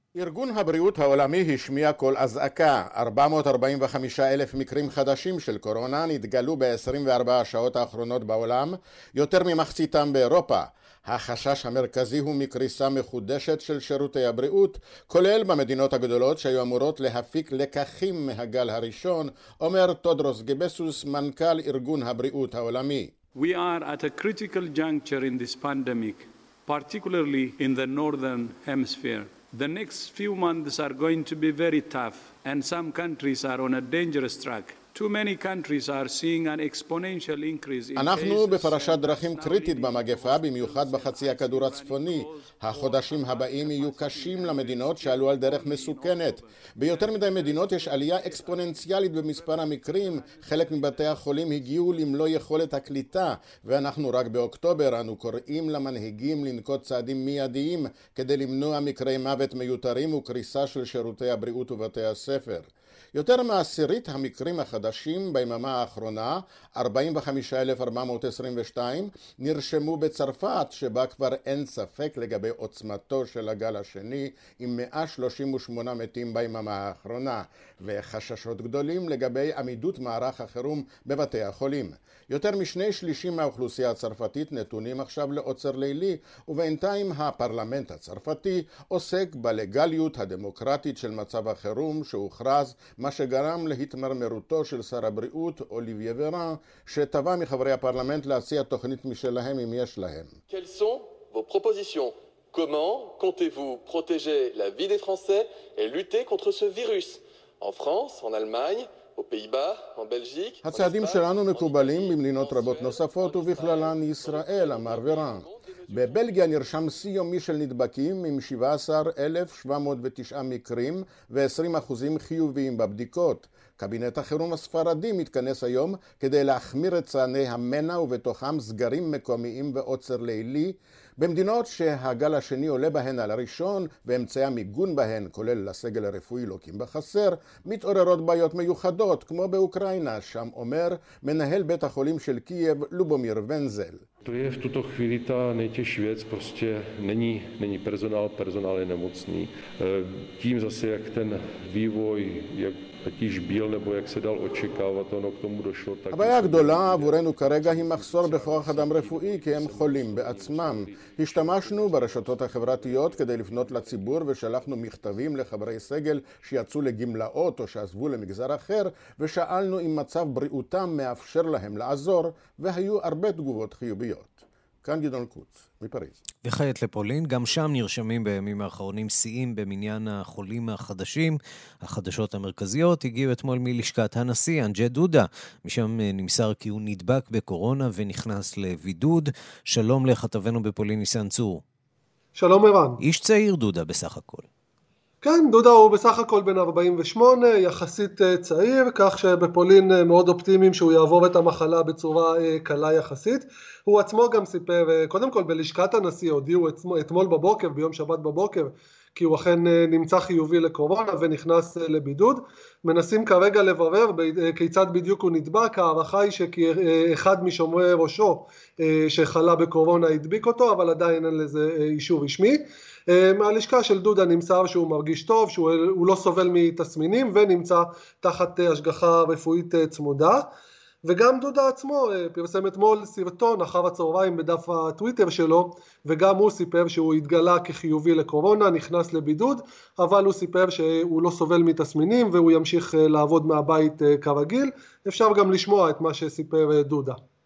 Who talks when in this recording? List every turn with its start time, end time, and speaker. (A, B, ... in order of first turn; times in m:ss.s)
0:00.2-0:23.1 A
0:23.3-0:51.2 B
0:37.9-1:40.3 A
1:40.5-1:56.7 C
1:50.6-2:24.0 A
2:24.3-2:44.0 D
2:36.1-2:56.2 A
2:56.4-3:11.6 E
3:12.4-3:13.0 F
3:13.0-3:14.4 E
3:15.2-3:50.5 F
3:51.0-4:07.2 F